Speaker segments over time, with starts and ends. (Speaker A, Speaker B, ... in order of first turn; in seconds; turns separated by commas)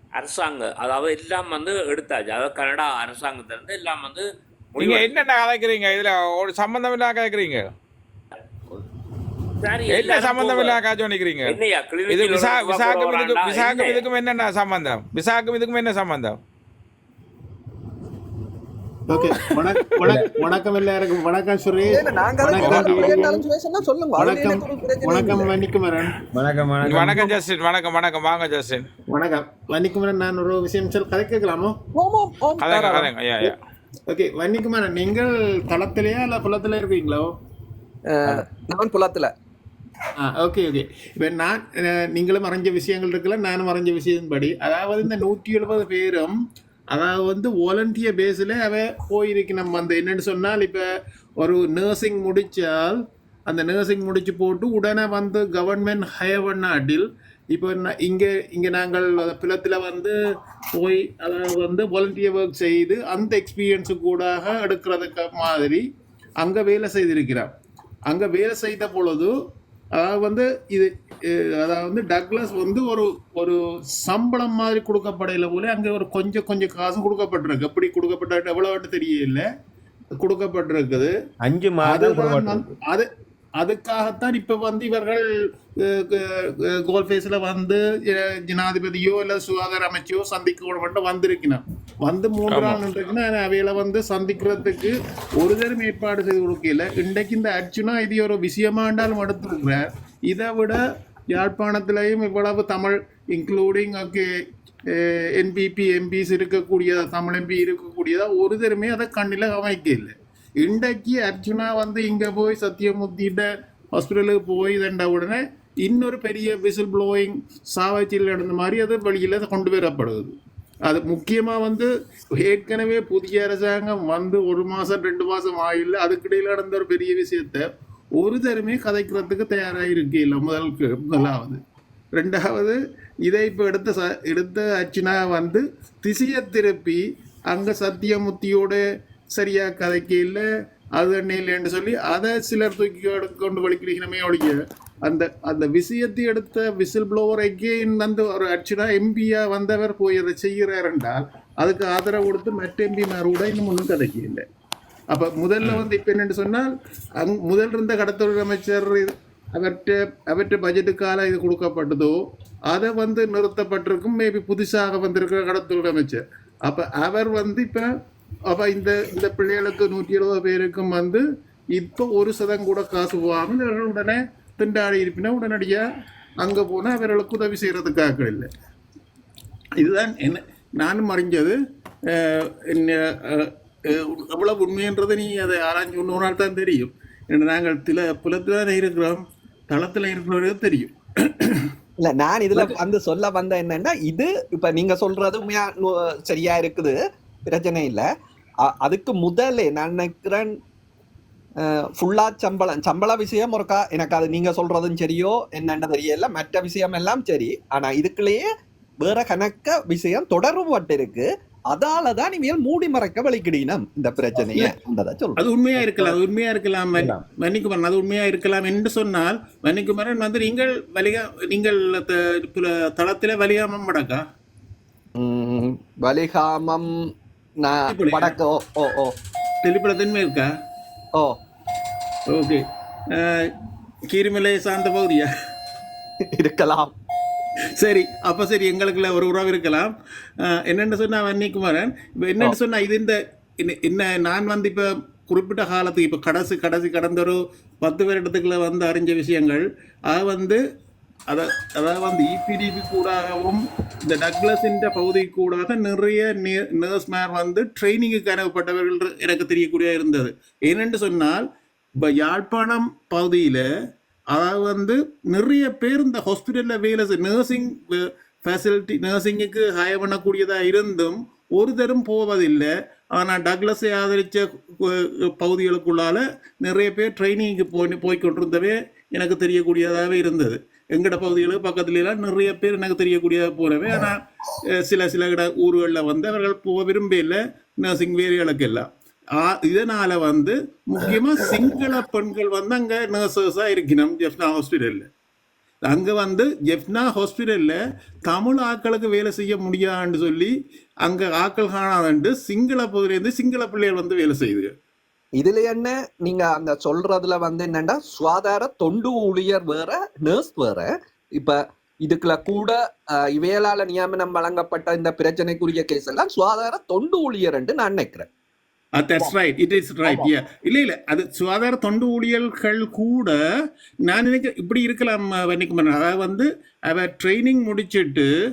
Speaker A: 0.1-5.2, Speaker B: 4.8-7.7, Speaker A: 9.6-10.8, Speaker B: 9.9-11.6, Speaker A: 11.4-14.0, Speaker B: 12.1-16.4, Speaker C: 19.1-23.4, Speaker D: 21.8-25.5, Speaker B: 22.5-23.2, Speaker C: 24.2-26.2, Speaker E: 26.3-27.3, Speaker B: 26.8-28.9, Speaker C: 29.1-31.8, Speaker D: 31.9-33.5, Speaker B: 32.6-33.5, Speaker C: 34.1-37.3, Speaker D: 38.1-39.3, Speaker C: 40.2-46.3, Speaker C: 46.9-50.8, Speaker C: 51.4-60.1, Speaker C: 60.8-65.8, Speaker C: 66.4-67.5, Speaker C: 68.1-69.3, Speaker C: 69.9-79.4, Speaker C: 80.2-81.1, Speaker E: 81.4-82.7, Speaker C: 81.8-83.1, Speaker C: 83.6-85.2, Speaker C: 85.8-100.8, Speaker B: 92.5-92.8, Speaker C: 101.3-104.2, Speaker C: 104.9-120.3, Speaker C: 120.9-127.7, Speaker C: 128.2-131.6, Speaker C: 132.1-138.8, Speaker C: 139.3-140.4, Speaker C: 141.0-154.4, Speaker C: 155.1-156.7, Speaker C: 157.2-162.2, Speaker C: 162.7-167.9, Speaker C: 168.5-171.2, Speaker C: 171.7-175.8, Speaker C: 176.4-178.5, Speaker C: 179.8-181.6, Speaker C: 182.1-191.7, Speaker D: 192.0-197.0, Speaker D: 197.5-198.1, Speaker D: 198.6-200.6, Speaker D: 201.6-208.5, Speaker D: 209.0-216.2, Speaker C: 215.4-224.2, Speaker D: 225.2-227.1, Speaker D: 227.6-229.1, Speaker C: 227.9-228.3, Speaker C: 229.6-230.5, Speaker C: 232.3-232.6, Speaker C: 233.1-233.5, Speaker C: 234.1-235.3, Speaker D: 236.3-236.9, Speaker C: 237.8-239.9, Speaker C: 240.4-250.6, Speaker C: 251.3-261.4, Speaker C: 262.0-263.6, Speaker C: 264.3-284.2, Speaker C: 284.8-288.9, Speaker C: 289.4-295.1, Speaker C: 295.9-300.5, Speaker C: 301.0-304.7, Speaker D: 305.4-318.3, Speaker C: 318.9-323.4, Speaker D: 320.0-320.3, Speaker C: 324.1-328.3